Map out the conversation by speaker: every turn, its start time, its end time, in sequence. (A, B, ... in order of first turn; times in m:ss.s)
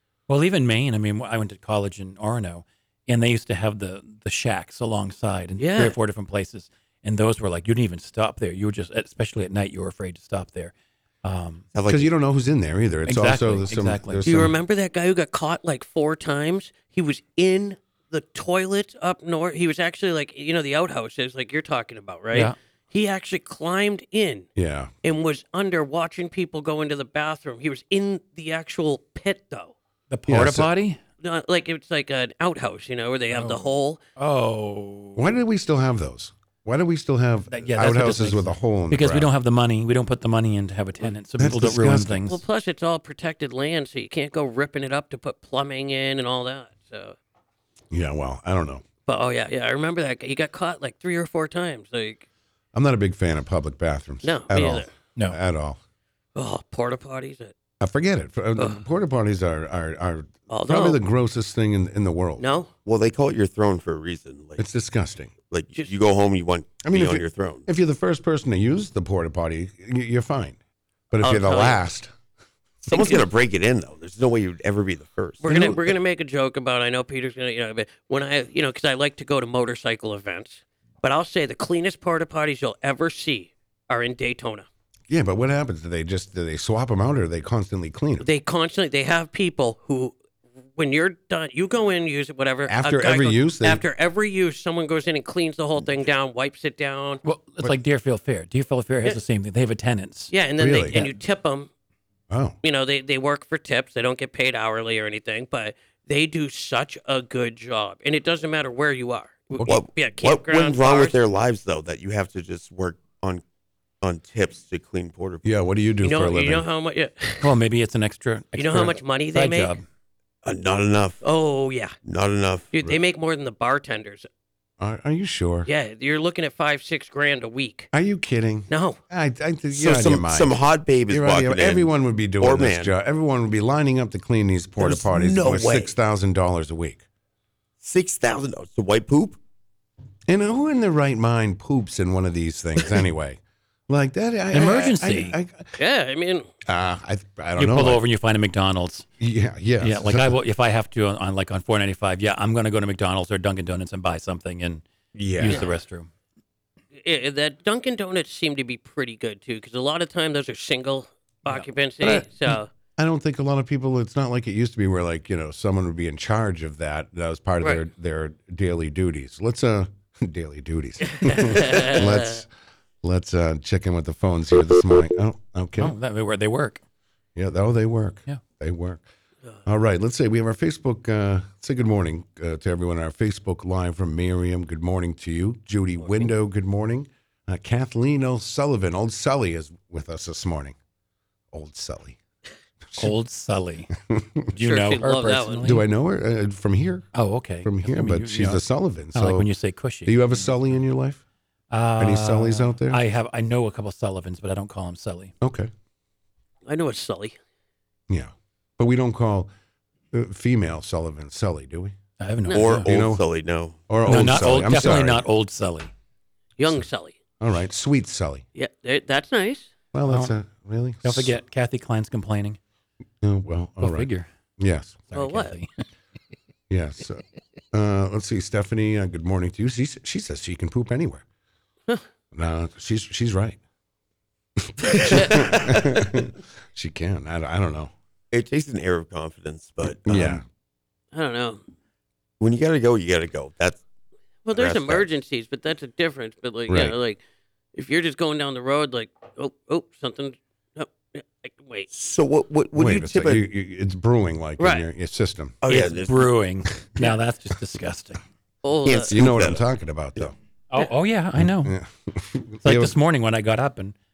0:00.3-0:10.7 A
0:05.6-0:06.0 B
0:11.2-0:11.7 A
0:11.7-0:12.1 C
0:11.9-0:14.5 D
0:13.1-0:14.4 A
0:14.2-0:24.5 B
0:24.6-0:24.9 D
0:25.0-0:29.7 B
0:30.1-0:31.0 A
0:30.3-0:30.7 D
0:31.2-0:34.0 B
0:33.3-0:33.6 A
0:34.2-0:35.3 A
0:35.2-0:39.3 D
0:37.5-0:42.4 A
0:41.4-0:42.2 D
0:42.3-0:47.2 B
0:47.9-0:48.8 D
0:49.1-0:52.2 B
0:52.7-0:55.8 D
0:54.2-0:54.9 B
0:56.4-0:57.6 B
0:57.8-1:02.4 D
1:00.5-1:01.0 B
1:02.4-1:02.7 B
1:02.8-1:04.6 C
1:04.6-1:05.3 D
1:05.5-1:07.6 C
1:06.8-1:10.6 D
1:11.1-1:12.1 D
1:11.2-1:11.8 B
1:12.9-1:15.8 C
1:12.9-1:13.2 B
1:15.4-1:24.7 B
1:25.1-1:28.3 D
1:28.2-1:30.2 B
1:30.8-1:37.2 B
1:32.7-1:33.8 D
1:37.2-1:40.3 A
1:40.3-1:41.7 B
1:40.6-1:41.0 D
1:40.9-1:41.2 A
1:42.3-1:42.6 D
1:42.6-1:51.2 B
1:49.6-1:53.4 C
1:54.0-1:55.5 C
1:55.4-1:56.7 D
1:56.0-1:57.4 B
1:57.4-1:59.8 A
1:58.6-1:59.8 B
2:00.4-2:01.2 C
2:01.2-2:01.9 B
2:02.0-2:02.7 C
2:02.7-2:04.3 B
2:04.8-2:05.7 D
2:05.7-2:07.9 B
2:07.9-2:10.6 D
2:08.7-2:09.0 B
2:09.7-2:12.9 C
2:11.1-2:17.0 D
2:14.8-2:15.9 C
2:17.8-2:19.4 C
2:20.3-2:25.7 D
2:24.5-2:25.4 A
2:25.8-2:26.5 B
2:26.7-2:28.0 D
2:27.6-2:29.1 A
2:29.2-2:30.4 D
2:29.8-2:34.8 A
2:35.1-2:35.7 D
2:35.4-2:36.1 A
2:37.0-2:42.7 B
2:42.0-2:52.5 D
2:51.1-2:52.4 B
2:53.0-2:56.0 D
2:55.8-2:56.8 A
2:57.4-2:59.0 D
2:59.7-3:10.8 D
3:06.0-3:06.3 B
3:11.5-3:12.2 D
3:13.0-3:13.9 A
3:14.1-3:14.5 D
3:14.5-3:15.8 A
3:14.6-3:15.7 B
3:15.6-3:17.1 D
3:17.1-3:18.6 A
3:17.6-3:19.5 D
3:19.1-3:20.6 A
3:20.1-3:21.2 D
3:21.7-3:25.3 A
3:22.0-3:23.0 D
3:25.4-3:25.7 D
3:26.7-3:27.4 B
3:28.1-3:29.5 D
3:30.1-3:32.0 D
3:32.2-3:32.9 A
3:32.5-3:32.8 B
3:32.5-3:35.0 C
3:32.8-3:33.2 D
3:33.9-3:35.2 D
3:34.1-3:35.9 A
3:36.6-3:37.2 B
3:37.4-3:38.4 D
3:38.6-3:39.7 B
3:39.9-3:41.4 D
3:40.0-3:40.3 A
3:41.0-3:42.6 A
3:43.2-3:45.1 D
3:43.8-3:44.3 A
3:45.1-3:45.7 A
3:45.1-3:45.6 B
3:46.7-3:51.2 D
3:52.3-3:53.6 D
3:54.6-3:57.9 D
3:55.0-3:55.6 B
3:58.3-4:00.4 C
4:00.0-4:00.4 D
4:01.1-4:01.6 B
4:02.4-4:03.8 C
4:04.4-4:07.2 B
4:04.5-4:05.1 C
4:06.7-4:07.0 D
4:07.8-4:11.9 B
4:11.9-4:13.4 C
4:12.8-4:15.6 D
4:14.6-4:14.9 B
4:15.6-4:16.3 C
4:15.7-4:18.2 A
4:18.6-4:19.1 B
4:18.8-4:19.6 C
4:19.1-4:20.3 D
4:20.7-4:21.8 A
4:21.4-4:23.0 D
4:22.6-4:24.0 A